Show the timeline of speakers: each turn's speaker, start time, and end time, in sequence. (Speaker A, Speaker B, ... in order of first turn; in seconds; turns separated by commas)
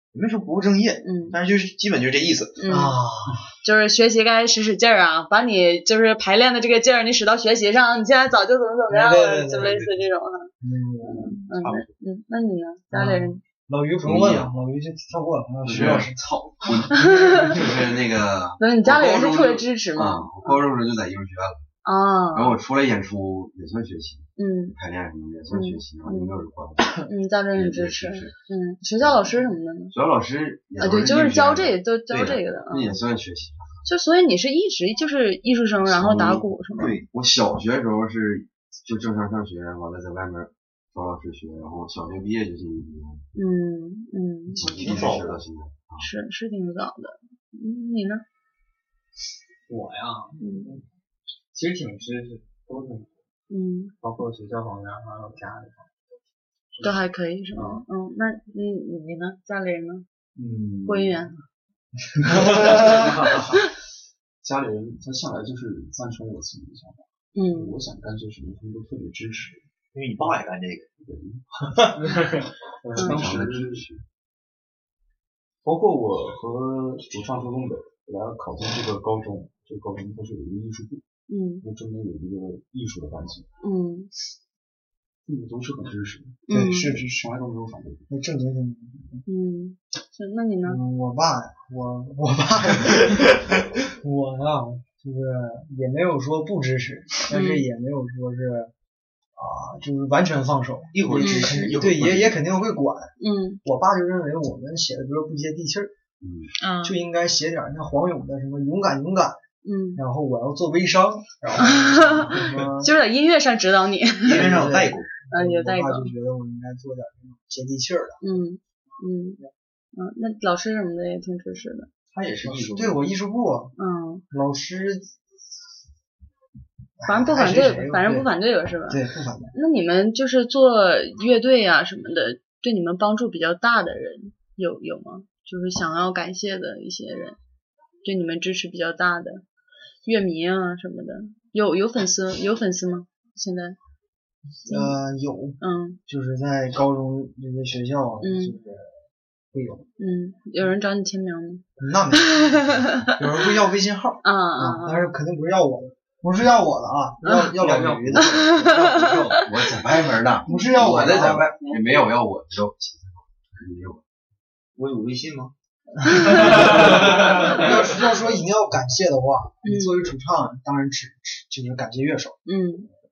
Speaker A: 0.1-2.6, Speaker B: 1.0-1.4, Speaker B: 2.6-3.0, Speaker C: 2.7-3.5, Speaker B: 3.6-10.5, Speaker C: 8.9-10.0, Speaker C: 10.6-11.4, Speaker B: 11.1-13.4, Speaker A: 11.3-11.9, Speaker C: 12.9-16.2, Speaker D: 14.0-14.5, Speaker D: 15.6-21.7, Speaker B: 16.9-17.6, Speaker B: 18.6-20.6, Speaker B: 21.8-22.6, Speaker D: 22.3-28.4, Speaker B: 24.4-24.8, Speaker B: 25.5-26.3, Speaker B: 27.0-29.9, Speaker D: 29.0-29.4, Speaker D: 29.9-33.8, Speaker B: 30.8-33.0, Speaker B: 33.9-37.0, Speaker D: 35.8-43.2, Speaker A: 36.8-37.0, Speaker B: 43.4-44.6, Speaker D: 44.6-46.1, Speaker A: 44.6-45.5, Speaker B: 46.0-48.2, Speaker E: 49.7-50.8, Speaker A: 50.4-50.7, Speaker E: 51.5-53.1, Speaker B: 53.5-53.9, Speaker E: 54.0-55.9, Speaker B: 56.8-60.0, Speaker F: 60.4-61.3, Speaker B: 60.9-61.3, Speaker F: 62.2-63.6, Speaker E: 62.5-63.4, Speaker F: 64.4-69.6, Speaker B: 67.3-67.7, Speaker A: 69.9-70.9, Speaker F: 71.0-71.5, Speaker F: 72.8-73.9, Speaker D: 73.0-74.0, Speaker F: 75.6-81.0, Speaker B: 81.3-81.7, Speaker F: 81.6-83.5, Speaker B: 83.6-84.1, Speaker F: 85.3-88.1, Speaker B: 86.5-86.9, Speaker C: 86.5-87.2, Speaker C: 88.1-89.2, Speaker B: 89.3-90.8, Speaker C: 90.7-98.7, Speaker B: 97.3-97.7, Speaker C: 99.4-103.1, Speaker A: 100.9-102.4, Speaker B: 101.2-101.6, Speaker B: 103.2-103.6, Speaker C: 103.6-106.0, Speaker D: 106.2-106.5, Speaker B: 106.6-107.0, Speaker C: 106.8-109.4, Speaker B: 109.6-110.0, Speaker C: 110.0-112.9, Speaker B: 111.6-114.5, Speaker A: 114.2-115.1, Speaker C: 114.3-118.2, Speaker B: 115.3-116.1, Speaker B: 118.2-119.4, Speaker B: 119.9-121.9, Speaker A: 122.1-123.0, Speaker C: 122.4-123.7, Speaker B: 123.8-124.2, Speaker C: 124.3-125.1, Speaker C: 127.0-128.3, Speaker B: 127.1-129.0, Speaker C: 128.9-129.6, Speaker B: 129.5-137.4, Speaker B: 138.0-139.4, Speaker B: 140.0-143.8, Speaker B: 144.7-145.0, Speaker C: 144.7-148.9, Speaker B: 145.6-146.0, Speaker B: 148.2-148.6, Speaker C: 149.5-149.9, Speaker B: 150.0-151.6, Speaker C: 151.8-158.7, Speaker B: 152.4-153.1, Speaker B: 154.2-155.1, Speaker E: 157.6-159.4, Speaker B: 158.2-159.5, Speaker D: 158.4-164.0, Speaker C: 160.4-161.5, Speaker B: 160.5-161.0, Speaker B: 161.6-162.1, Speaker A: 164.8-165.5, Speaker C: 166.1-172.4, Speaker B: 166.1-166.8, Speaker B: 169.6-170.1, Speaker B: 172.5-172.9